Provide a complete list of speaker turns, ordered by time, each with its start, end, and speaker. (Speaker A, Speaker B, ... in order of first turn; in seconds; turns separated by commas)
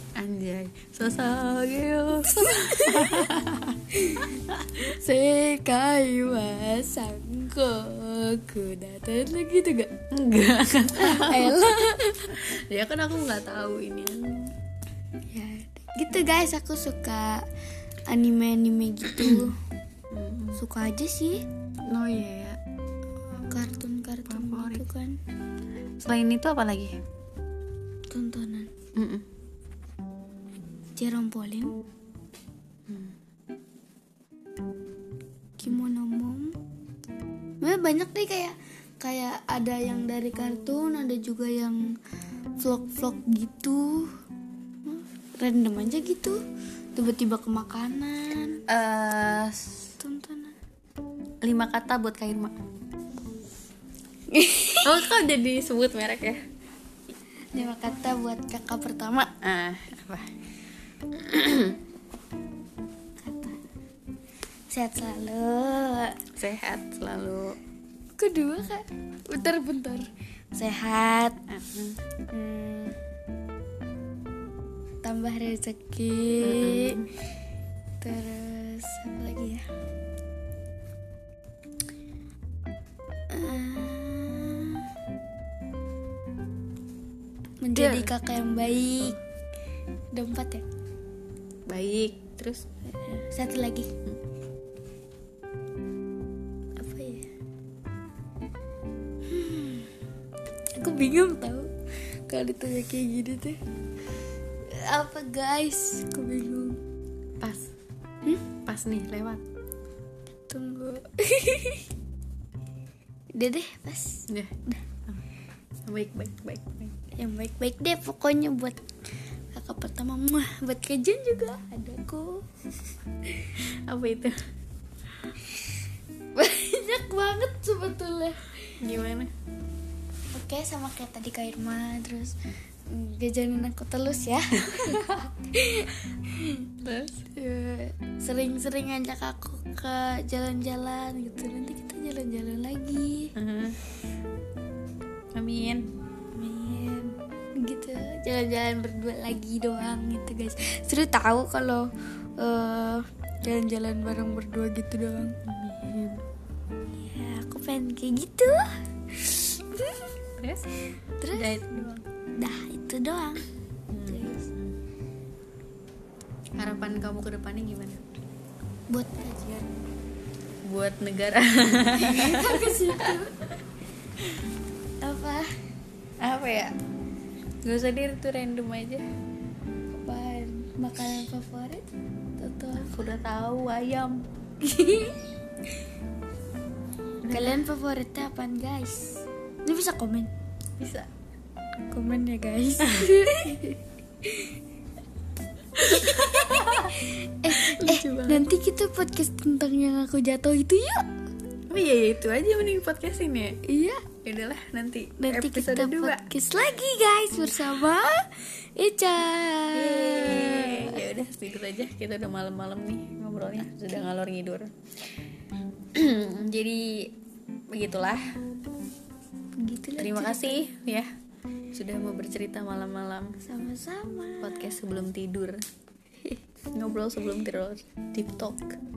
Speaker A: 0.2-4.9, Speaker B: 2.2-3.3, Speaker B: 3.9-9.9, Speaker A: 10.1-14.5, Speaker B: 10.9-12.4, Speaker B: 15.3-17.5, Speaker B: 18.1-19.6, Speaker A: 19.1-19.5, Speaker A: 20.1-20.6, Speaker B: 20.6-21.4, Speaker A: 21.9-22.6, Speaker B: 23.5-25.2, Speaker A: 24.3-24.9, Speaker A: 26.0-26.9, Speaker B: 28.1-28.7, Speaker A: 28.9-29.3, Speaker B: 31.0-31.8, Speaker A: 32.9-33.2, Speaker B: 35.6-36.6, Speaker B: 37.6-41.9, Speaker B: 42.6-44.1, Speaker B: 44.9-46.4, Speaker B: 47.0-48.6, Speaker A: 48.7-49.9, Speaker B: 50.0-50.5, Speaker A: 51.4-52.6, Speaker B: 54.3-55.0, Speaker A: 54.8-56.4, Speaker B: 57.5-59.3, Speaker A: 59.4-60.3, Speaker A: 61.1-61.8, Speaker B: 63.2-63.6, Speaker B: 64.7-66.2, Speaker A: 66.3-67.5, Speaker B: 68.2-71.4, Speaker A: 71.5-72.0, Speaker B: 72.3-73.0, Speaker B: 75.0-77.0, Speaker A: 76.4-77.1, Speaker B: 78.0-79.7, Speaker B: 83.3-84.9, Speaker B: 87.6-89.2, Speaker A: 87.8-88.1, Speaker B: 90.1-90.7, Speaker A: 91.7-92.7, Speaker B: 92.9-93.9, Speaker B: 96.8-97.3, Speaker B: 99.3-100.0, Speaker B: 100.8-101.7, Speaker B: 102.3-103.6, Speaker B: 104.7-106.8, Speaker A: 107.4-107.7, Speaker A: 108.7-109.4, Speaker B: 110.5-111.9, Speaker B: 113.3-114.8, Speaker A: 114.3-115.2, Speaker A: 115.8-117.0, Speaker B: 117.2-118.8, Speaker B: 119.5-122.5, Speaker B: 123.3-123.5, Speaker A: 123.6-124.4, Speaker B: 126.4-128.7, Speaker A: 128.8-129.3, Speaker B: 130.3-132.3, Speaker B: 132.9-136.7, Speaker A: 134.7-135.3, Speaker A: 136.8-137.3, Speaker B: 137.2-143.3, Speaker A: 143.4-143.8, Speaker A: 145.3-145.9, Speaker B: 146.3-155.4, Speaker A: 155.4-156.2, Speaker B: 157.0-160.2, Speaker A: 160.4-160.7, Speaker B: 161.2-163.4, Speaker A: 161.3-162.0, Speaker A: 163.9-164.8, Speaker B: 164.1-164.5, Speaker A: 166.6-168.0, Speaker B: 168.9-169.7, Speaker A: 170.6-173.2, Speaker B: 171.9-173.6, Speaker B: 175.0-175.6, Speaker A: 176.2-176.7, Speaker A: 177.6-179.1, Speaker B: 179.9-181.9, Speaker B: 182.4-183.0, Speaker A: 182.8-184.2, Speaker B: 184.6-185.2, Speaker A: 187.2-187.6, Speaker B: 187.3-190.3, Speaker A: 190.8-191.1, Speaker B: 191.9-194.6, Speaker A: 192.9-193.6, Speaker A: 195.8-198.5, Speaker B: 195.8-201.1, Speaker A: 201.7-203.6, Speaker B: 203.7-204.1, Speaker A: 204.2-206.3, Speaker B: 205.2-211.0, Speaker A: 209.7-214.7, Speaker A: 215.9-217.1, Speaker A: 217.7-218.2, Speaker B: 219.6-220.6, Speaker A: 220.0-221.1, Speaker A: 221.7-223.4, Speaker B: 223.4-224.7, Speaker A: 224.4-225.6, Speaker A: 226.7-228.8